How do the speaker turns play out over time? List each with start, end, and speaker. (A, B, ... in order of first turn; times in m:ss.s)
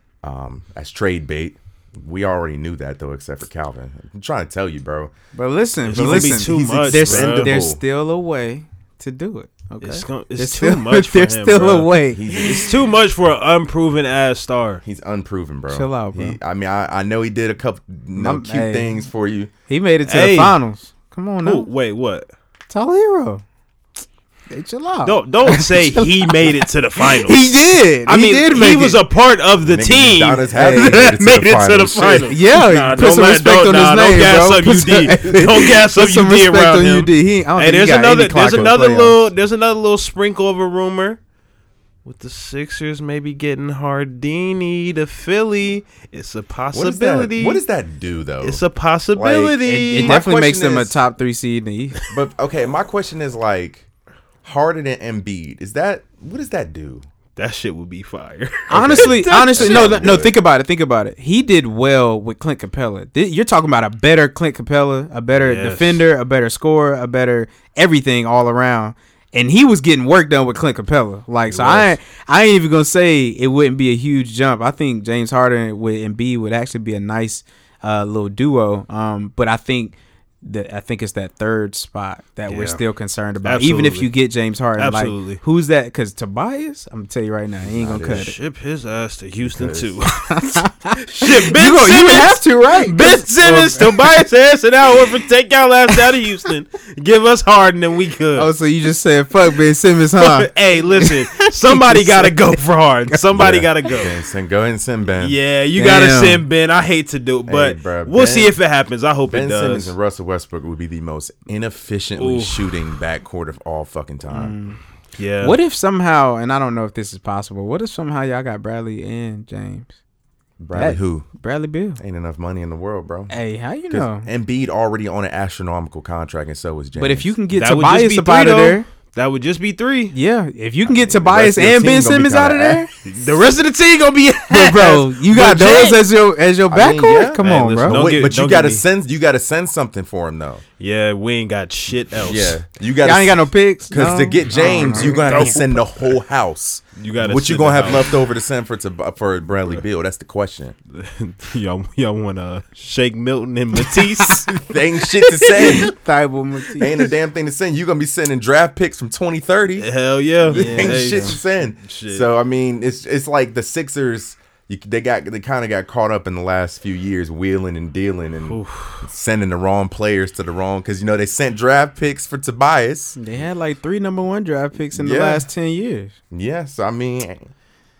0:00.2-0:05.1 A
0:05.3-0:12.7 B
0:05.9-0:07.6 C
0:05.9-0:07.8 A
0:09.8-0:14.8 C
0:12.1-0:12.8 A
0:14.8-0:19.5 A
0:15.7-0:16.4 B
0:18.1-0:19.0 B
0:19.7-0:21.7 B
0:20.1-0:20.6 C
0:21.4-0:22.3 C
0:22.7-0:23.4 B
0:24.5-0:29.0 B
0:25.0-0:41.2 C
0:29.6-0:32.3 A
0:30.5-0:31.1 B
0:32.3-0:39.3 B
0:42.0-0:47.6 C
0:46.7-0:48.6 A
0:48.4-0:50.2 C
0:49.2-0:51.0 A
0:49.6-0:52.0 B
0:52.1-0:53.9 A
0:54.4-0:57.0 A
0:57.4-1:00.1 C
0:58.7-1:00.3 A
0:58.7-1:28.4 B
1:05.4-1:06.0 C
1:11.5-1:12.0 C
1:22.5-1:22.8 C
1:23.4-1:24.1 C
1:24.8-1:25.4 C
1:27.6-1:28.3 A
1:28.1-1:38.5 C
1:29.4-1:30.0 A
1:30.3-1:34.3 B
1:36.0-1:36.2 B
1:38.3-1:42.6 B
1:40.2-1:44.1 C
1:43.4-1:45.4 A
1:45.2-1:50.0 C
1:45.8-1:46.4 B
1:47.5-1:48.6 A
1:49.3-1:54.6 A
1:52.2-1:52.8 C
1:54.3-1:54.8 B
1:55.2-1:55.6 C
1:55.4-1:59.9 B
2:00.6-2:01.3 A
2:00.7-2:02.0 B
2:02.0-2:03.3 A
2:03.3-2:04.3 B
2:03.9-2:07.3 A
2:07.0-2:08.9 B
2:07.5-2:10.2 C
2:10.1-2:12.9 B
2:10.9-2:12.9 A
2:13.0-2:16.1 C
2:14.5-2:18.1 B
2:16.7-2:20.6 A
2:17.4-2:18.8 C
2:20.8-2:22.6 C
2:22.2-2:30.8 A
2:23.0-2:25.6 B
2:24.5-2:26.1 C
2:27.0-2:28.2 C
2:30.9-2:34.7 C
2:33.8-2:34.6 B
2:34.7-2:35.9 A
2:35.4-2:37.1 B
2:36.8-2:39.9 A
2:39.8-2:42.3 C
2:40.5-2:53.2 A
2:40.5-2:41.4 B
2:48.5-2:49.1 C
2:53.2-2:56.2 B
2:54.9-2:55.5 A
2:56.3-2:57.5 A